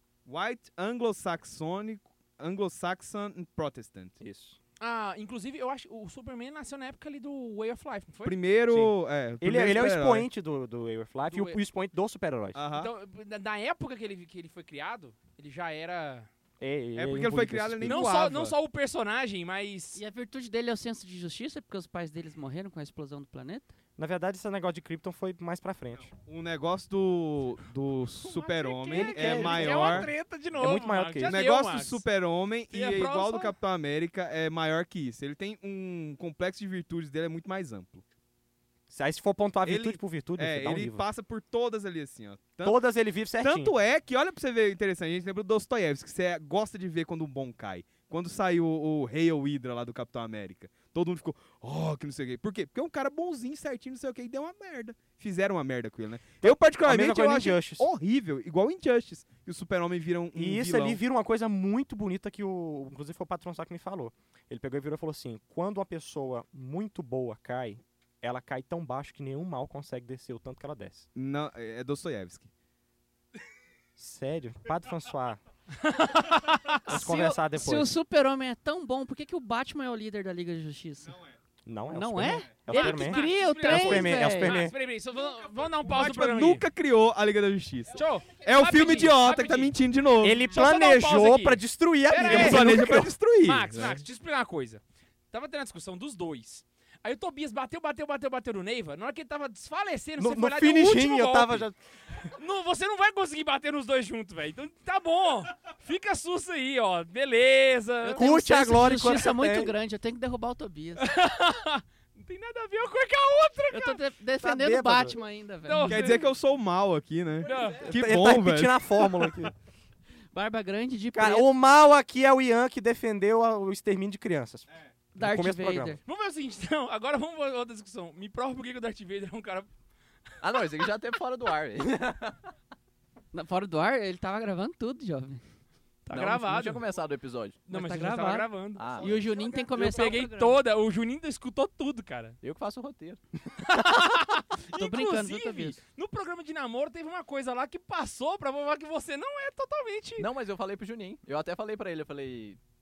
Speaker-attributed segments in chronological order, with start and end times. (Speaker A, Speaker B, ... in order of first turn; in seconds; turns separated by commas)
Speaker A: 0.2-4.2, Speaker B: 4.2-4.6, Speaker C: 4.8-8.4, Speaker A: 8.2-10.3, Speaker B: 8.7-12.6, Speaker C: 11.3-11.6, Speaker A: 12.6-12.9, Speaker C: 12.7-16.3, Speaker B: 16.6-18.0, Speaker A: 16.9-18.6, Speaker C: 17.8-20.0, Speaker D: 19.9-23.7, Speaker B: 24.0-26.1, Speaker A: 26.1-30.1, Speaker C: 28.2-32.0, Speaker B: 28.9-31.4, Speaker A: 31.2-38.0, Speaker C: 32.7-33.5, Speaker B: 38.9-41.1, Speaker A: 39.6-42.8, Speaker B: 42.6-43.7, Speaker A: 43.4-61.0, Speaker B: 56.4-57.9, Speaker B: 60.3-71.1, Speaker A: 71.1-72.5, Speaker B: 74.0-75.4, Speaker C: 75.8-76.8, Speaker B: 76.9-77.9, Speaker D: 76.9-81.1, Speaker A: 81.1-81.3, Speaker B: 81.7-84.7, Speaker D: 81.9-84.6, Speaker C: 82.7-86.6, Speaker A: 85.8-90.5, Speaker C: 87.9-89.8, Speaker B: 90.2-93.2, Speaker C: 90.5-101.6, Speaker A: 92.2-94.0, Speaker B: 100.2-101.8, Speaker C: 102.3-108.2, Speaker D: 108.0-111.1, Speaker B: 108.2-109.7, Speaker C: 111.0-114.0, Speaker D: 113.7-116.2, Speaker B: 114.4-115.2, Speaker C: 115.6-116.3, Speaker A: 115.9-119.3, Speaker C: 117.4-117.9, Speaker B: 117.8-119.5, Speaker D: 120.3-121.5, Speaker B: 121.1-126.0, Speaker D: 125.1-126.0, Speaker C: 126.1-129.7, Speaker E: 130.4-132.3, Speaker D: 133.3-135.4, Speaker C: 136.1-136.8, Speaker E: 136.1-137.6, Speaker C: 137.7-142.4, Speaker D: 137.7-140.6, Speaker E: 138.8-139.2, Speaker E: 142.4-143.2, Speaker C: 143.6-150.3, Speaker D: 143.9-144.2, Speaker D: 144.7-145.8, Speaker E: 150.2-152.6